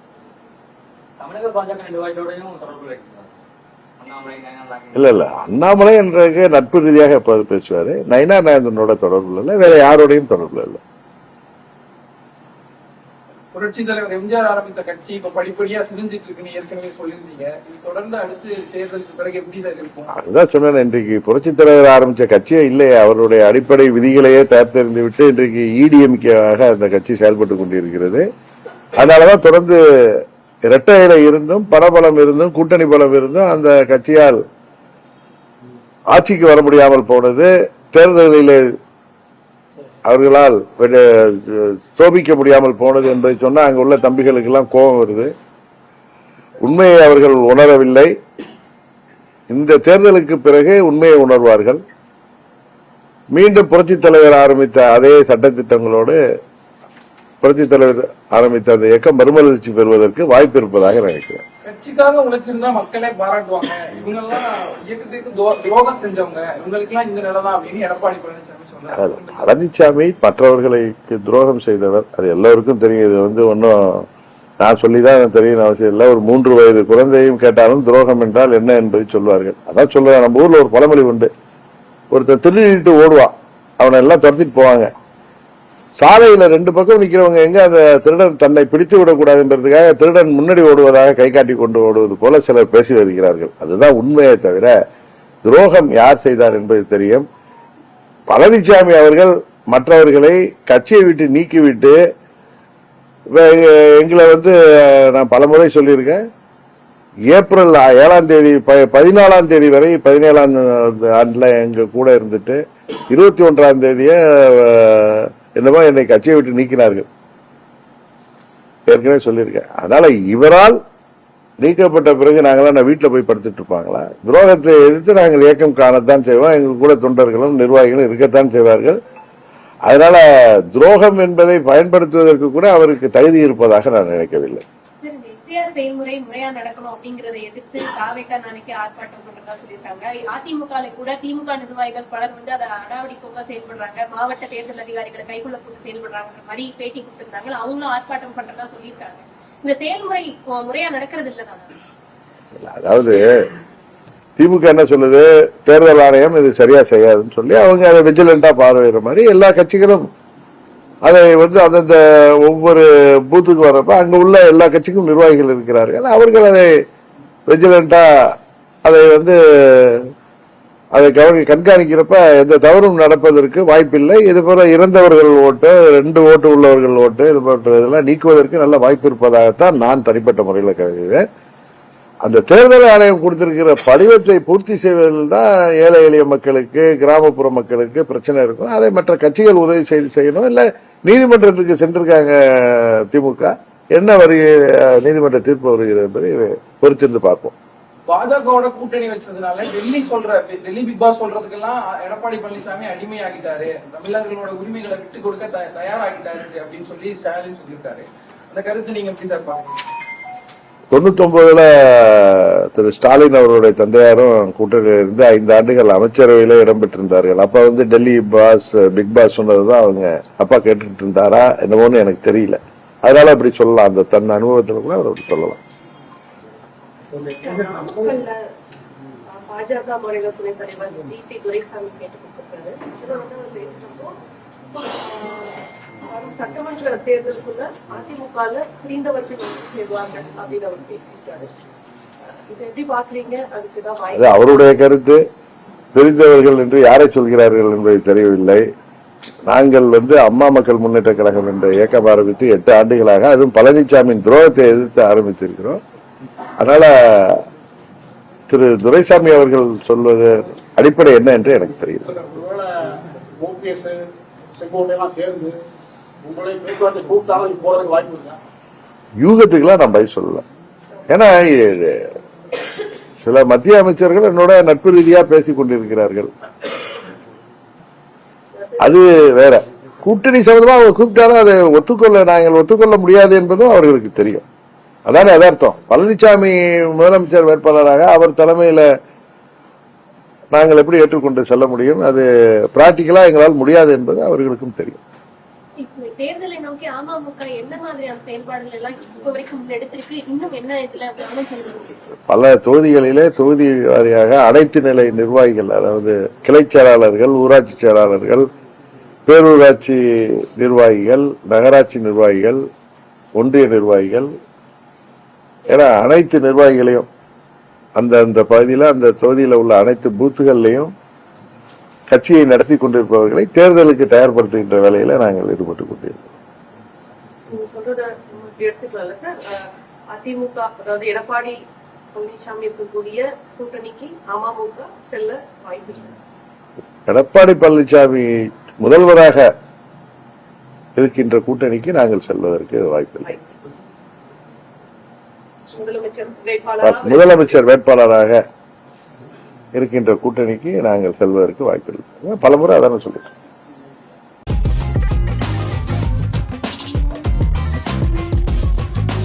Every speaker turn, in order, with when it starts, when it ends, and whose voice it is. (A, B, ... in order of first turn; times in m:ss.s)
0:01.2-0:03.3 A
0:04.0-0:05.0 A
0:04.9-0:10.8 B
0:13.5-0:20.1 C
0:20.1-0:28.2 B
0:29.0-0:34.4 B
0:36.1-0:38.6 B
0:40.1-0:45.3 B
0:46.6-0:48.1 B
0:49.5-0:51.8 B
0:53.3-0:56.2 B
0:57.4-1:01.4 B
1:01.6-1:09.4 C
1:08.9-1:14.0 B
1:14.6-1:21.3 B
1:22.1-1:24.9 B
1:26.0-1:34.7 B
1:35.4-1:37.2 B
1:38.3-1:42.0 B
1:43.3-1:46.2 B
1:47.3-1:57.1 B
1:58.9-2:00.8 B
2:01.6-2:09.0 B
2:09.9-2:14.6 B
2:15.0-2:31.7 D
2:32.6-2:33.5 B
2:34.4-2:40.1 B
2:41.0-2:46.7 B
2:47.5-2:50.1 B
2:50.9-3:01.3 B
3:02.2-3:17.5 B
3:18.1-3:29.8 C
3:30.9-3:45.6 B
3:47.2-3:48.2 E
3:47.4-3:48.4 F
3:49.3-3:54.1 F
3:54.7-4:01.5 F
4:02.5-4:04.3 F
4:04.1-4:05.2 B
4:06.0-4:08.6 B
4:09.5-4:15.8 B
4:16.6-4:17.4 B
4:18.5-4:22.1 B
4:22.1-4:25.6 E
4:26.2-4:28.4 E
4:29.2-4:30.4 B
4:31.1-4:32.0 B
4:33.2-4:36.3 B
4:38.6-4:38.8 F
4:38.8-4:44.4 B
4:45.1-4:48.9 B
4:50.5-4:55.0 B
4:55.8-5:02.0 D
5:02.3-5:08.4 B
5:09.3-5:12.6 B
5:13.4-5:14.3 B
5:15.7-5:17.1 B
5:18.0-5:20.9 B
5:22.1-5:26.3 B
5:27.5-5:29.6 F
5:30.1-5:31.6 F
5:32.1-5:36.2 F
5:37.1-5:39.5 B
5:41.0-5:43.4 B
5:45.7-5:47.6 F
5:46.8-5:48.4 B
5:49.8-5:53.3 B